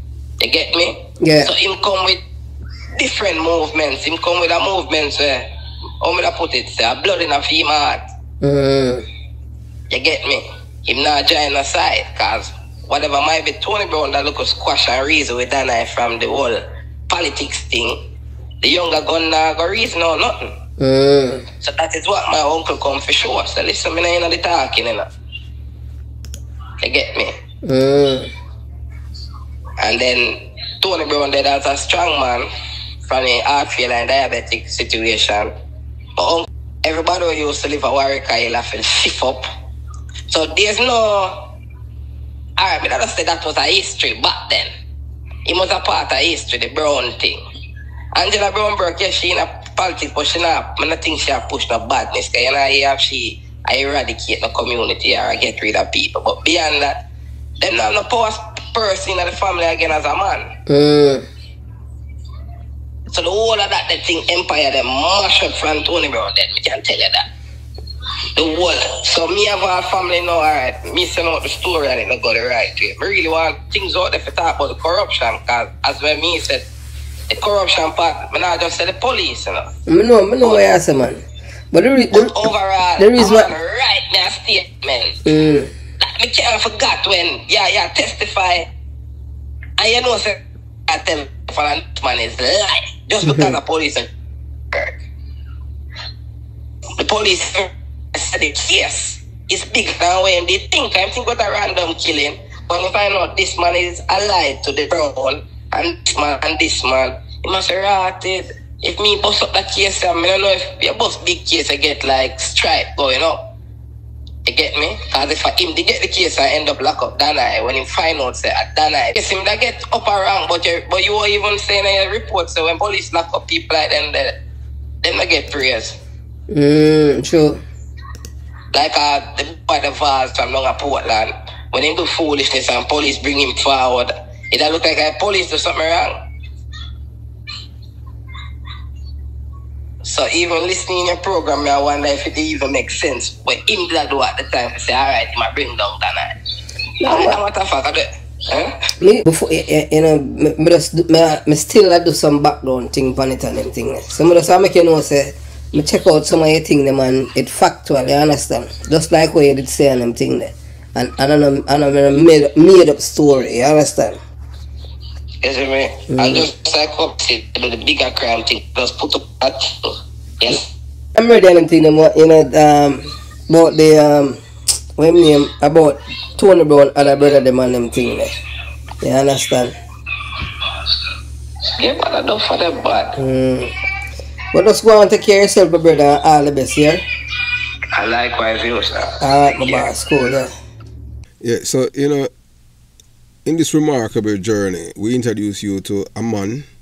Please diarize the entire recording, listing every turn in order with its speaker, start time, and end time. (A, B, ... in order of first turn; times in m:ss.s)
0:00.4-0:02.2 A
0:01.2-0:01.5 B
0:03.0-0:05.5 A
0:06.0-0:08.0 A
0:08.4-0:09.1 B
0:09.9-0:18.0 A
0:18.6-0:20.5 A
0:20.8-0:21.5 B
0:21.6-0:25.1 A
0:26.8-0:27.4 A
0:27.6-0:28.3 B
0:29.8-0:32.5 A
0:33.0-0:35.5 A
0:36.2-0:39.4 A
0:40.3-0:41.5 A
0:42.6-0:44.7 A
0:45.4-0:47.4 A
0:48.2-0:57.1 A
0:57.6-1:00.5 A
1:00.7-1:01.3 B
1:03.1-1:07.3 A
1:08.4-1:16.7 A
1:17.3-1:19.7 A
1:19.9-1:23.5 B
1:22.1-1:25.2 A
1:25.3-1:25.7 B
1:26.0-1:28.7 A
1:29.8-1:34.1 A
1:33.2-1:33.6 B
1:34.7-1:35.0 A
1:37.0-1:53.5 A
1:54.5-2:04.4 A
2:05.0-2:06.0 A
2:06.5-2:07.6 B
2:08.7-2:16.2 A
2:20.0-2:26.4 A
2:27.0-2:27.4 B
2:27.0-2:28.9 A
2:29.0-2:44.2 B
2:45.4-2:50.7 A
2:46.1-2:46.5 B
2:51.2-2:54.4 B
2:55.0-2:58.3 B
2:59.0-2:59.8 B
3:01.8-3:03.2 A
3:03.2-3:03.8 B
3:04.5-3:07.0 B
3:08.0-3:09.9 A
3:09.2-3:10.5 B
3:11.4-3:12.3 C
3:13.4-3:16.7 C